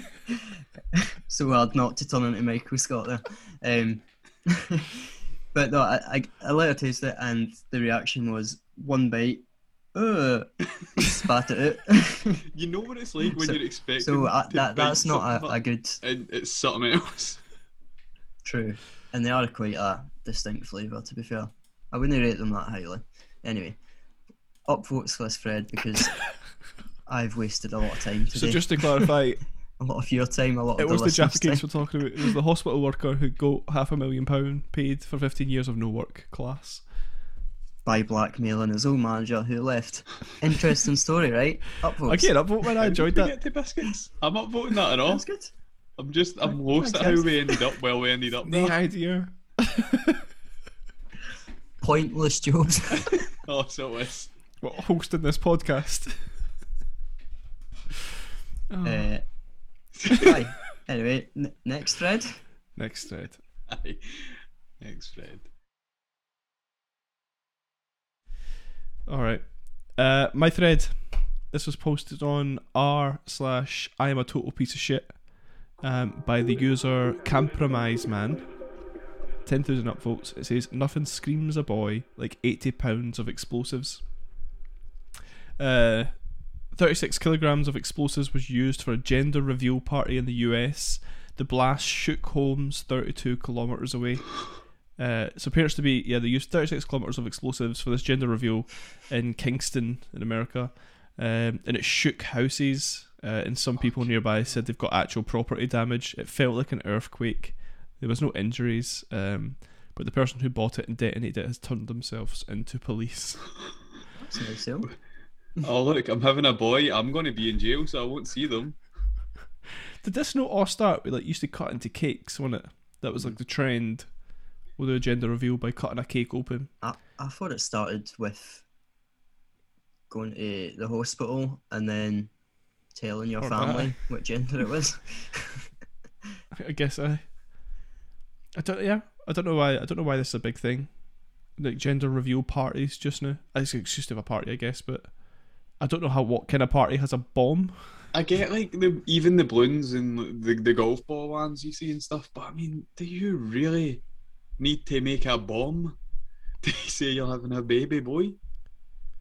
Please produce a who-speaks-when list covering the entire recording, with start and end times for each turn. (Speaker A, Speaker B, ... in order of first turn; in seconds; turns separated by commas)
Speaker A: 0.3-12.4, Speaker B: 12.5-17.4, Speaker A: 13.3-16.0, Speaker A: 18.4-23.8, Speaker A: 24.7-26.2, Speaker A: 27.1-29.1, Speaker C: 28.3-29.4, Speaker A: 29.8-31.7, Speaker C: 30.8-36.8, Speaker A: 37.9-42.3, Speaker C: 42.1-43.4, Speaker B: 42.8-45.2, Speaker A: 44.9-45.5, Speaker B: 46.0-48.8, Speaker A: 46.4-47.7, Speaker C: 48.5-50.2, Speaker A: 51.8-53.1, Speaker B: 53.1-54.3, Speaker C: 54.6-56.2, Speaker C: 58.7-59.1, Speaker A: 58.8-59.2, Speaker B: 60.0-60.3, Speaker A: 60.1-62.4, Speaker C: 62.8-63.4, Speaker B: 63.7-65.5, Speaker C: 69.1-78.5, Speaker C: 79.5-84.0, Speaker C: 85.6-94.4, Speaker C: 95.0-113.5, Speaker A: 114.2-114.9, Speaker B: 115.6-118.8, Speaker C: 120.0-124.2, Speaker C: 124.8-126.7, Speaker A: 126.8-128.7, Speaker A: 130.1-132.3, Speaker A: 132.9-135.7, Speaker C: 133.4-134.0, Speaker C: 136.6-137.4, Speaker C: 138.6-145.2, Speaker C: 145.8-147.9, Speaker B: 148.1-154.0, Speaker B: 154.6-156.0, Speaker B: 156.6-158.4